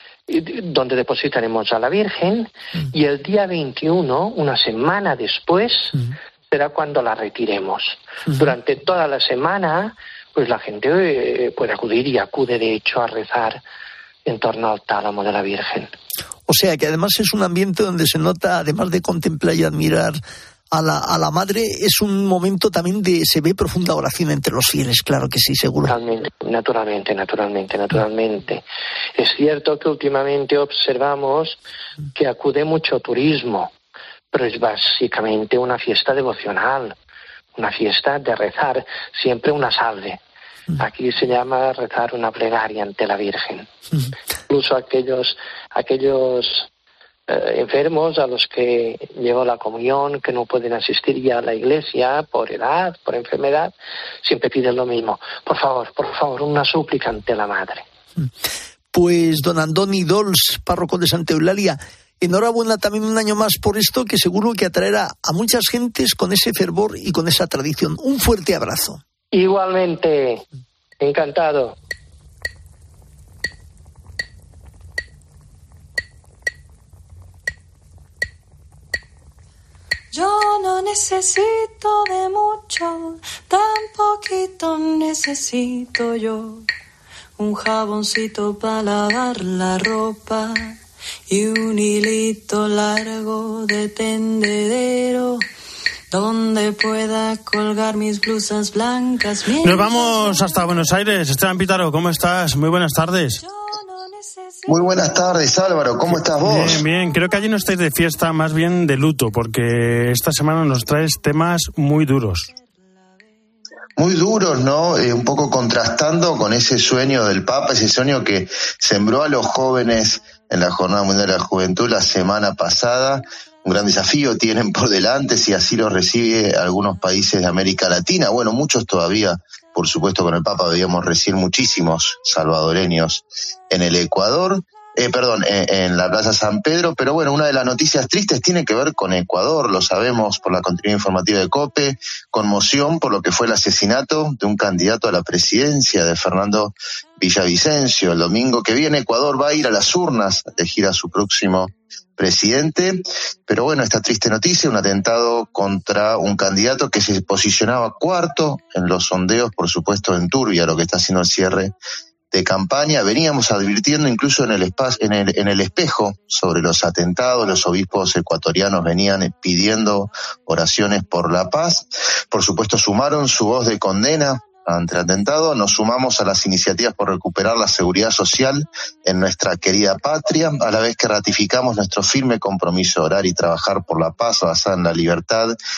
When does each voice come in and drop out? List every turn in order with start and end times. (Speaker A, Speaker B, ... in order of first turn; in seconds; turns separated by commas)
Speaker A: 0.3-13.6, Speaker A: 14.2-15.9, Speaker B: 16.5-20.2, Speaker B: 20.7-26.0, Speaker A: 25.9-28.6, Speaker A: 29.2-31.6, Speaker A: 32.2-33.7, Speaker A: 34.3-37.0, Speaker A: 37.5-40.2, Speaker A: 40.8-43.7, Speaker A: 44.5-46.7, Speaker A: 47.3-57.8, Speaker B: 58.9-69.0, Speaker A: 69.3-70.4, Speaker A: 71.0-71.8, Speaker C: 80.1-86.7, Speaker C: 87.4-90.8, Speaker C: 91.3-95.4, Speaker C: 96.1-101.1, Speaker D: 99.6-103.4, Speaker C: 103.4-105.3, Speaker E: 104.7-106.8, Speaker D: 106.1-112.5, Speaker E: 114.0-161.7, Speaker E: 162.3-185.5